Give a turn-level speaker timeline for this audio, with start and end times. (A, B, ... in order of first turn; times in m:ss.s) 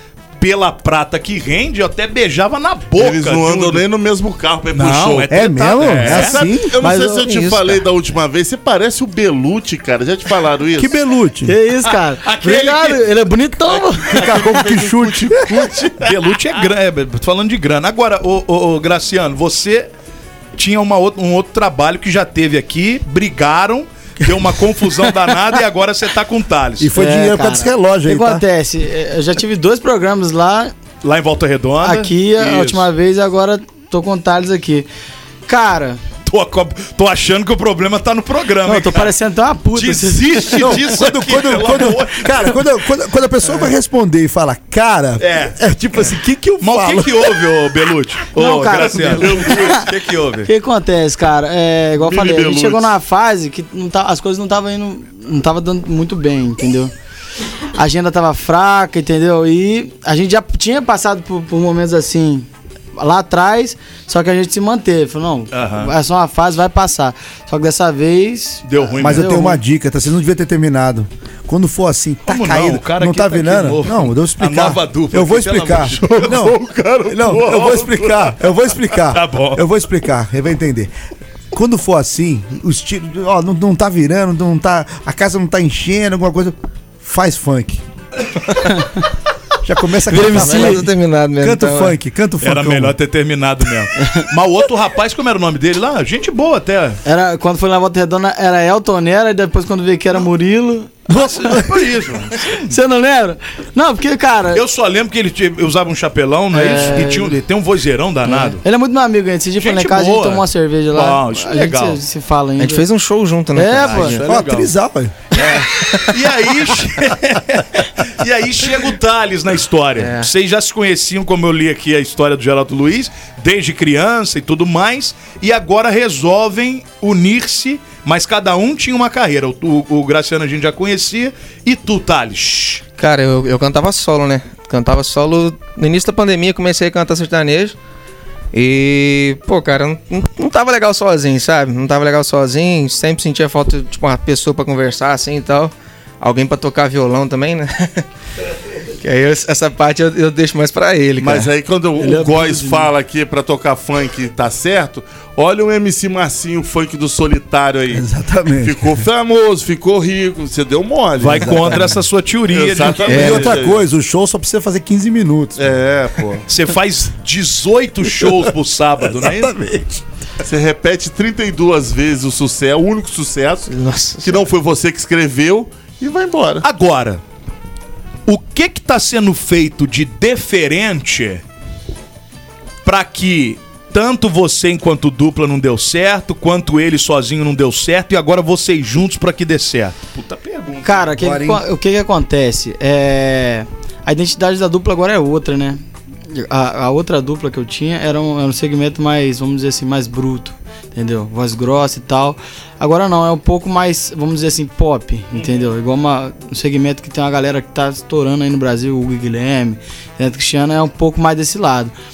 0:00.4-0:03.8 A
0:03.0-0:05.3 B
0:04.7-0:06.4 A
0:05.3-0:06.7 C
0:06.0-0:11.0 B
0:06.8-0:07.3 D
0:07.2-0:07.8 E
0:10.8-0:11.6 C
0:11.5-0:14.5 D
0:12.2-0:13.1 A
0:14.1-0:16.2 B
0:14.2-0:15.9 C
0:16.0-0:19.9 A
0:20.6-0:26.9 A
0:26.8-0:28.4 C
0:27.0-0:30.7 D
0:31.0-0:32.9 A
0:31.8-0:34.9 D
0:35.5-0:36.0 D
0:36.3-0:39.1 A
0:38.7-0:40.8 D
0:39.7-0:42.7 A
0:40.6-0:47.4 C
0:45.2-0:45.6 A
0:46.6-0:50.5 A
0:48.4-0:49.8 D
0:49.1-0:49.9 B
0:50.5-0:56.9 D
0:52.0-0:52.9 B
0:57.8-1:09.6 D
1:05.5-1:05.9 A
1:08.7-1:09.4 A
1:09.0-1:20.9 C
1:12.3-1:16.6 A
1:16.0-1:18.1 B
1:19.0-1:19.6 A
1:21.5-1:27.8 C
1:29.6-1:33.0 C
1:30.1-1:32.0 E
1:30.2-1:30.8 D
1:32.4-1:37.0 A
1:37.0-1:41.0 D
1:41.1-1:41.9 C
1:41.2-1:42.8 A
1:42.7-1:44.6 D
1:44.5-1:48.6 A
1:46.5-1:47.4 D
1:48.3-1:52.9 D
1:49.6-1:52.0 A
1:52.6-1:54.2 E
1:53.6-1:54.2 D
1:53.8-1:54.7 A
1:54.3-1:55.2 C
1:55.3-2:12.8 A
1:55.5-1:56.0 E
2:00.0-2:00.3 E
2:13.0-2:17.8 E
2:18.5-2:28.0 E
2:29.0-2:31.5 E
2:31.2-2:42.0 B
2:32.0-2:32.9 D
2:37.9-2:39.0 C
2:41.2-2:43.5 A
2:42.5-2:43.8 B
2:43.0-2:45.7 C
2:43.1-2:43.4 E
2:45.6-2:46.4 B
2:46.5-2:49.5 A
2:49.0-2:50.0 C
2:50.4-2:53.7 B
2:53.7-2:54.4 E
2:54.2-2:56.6 B
2:56.6-2:57.2 A
2:58.3-3:01.4 A
3:02.8-3:11.1 A
3:10.8-3:31.9 D
3:11.2-3:11.6 C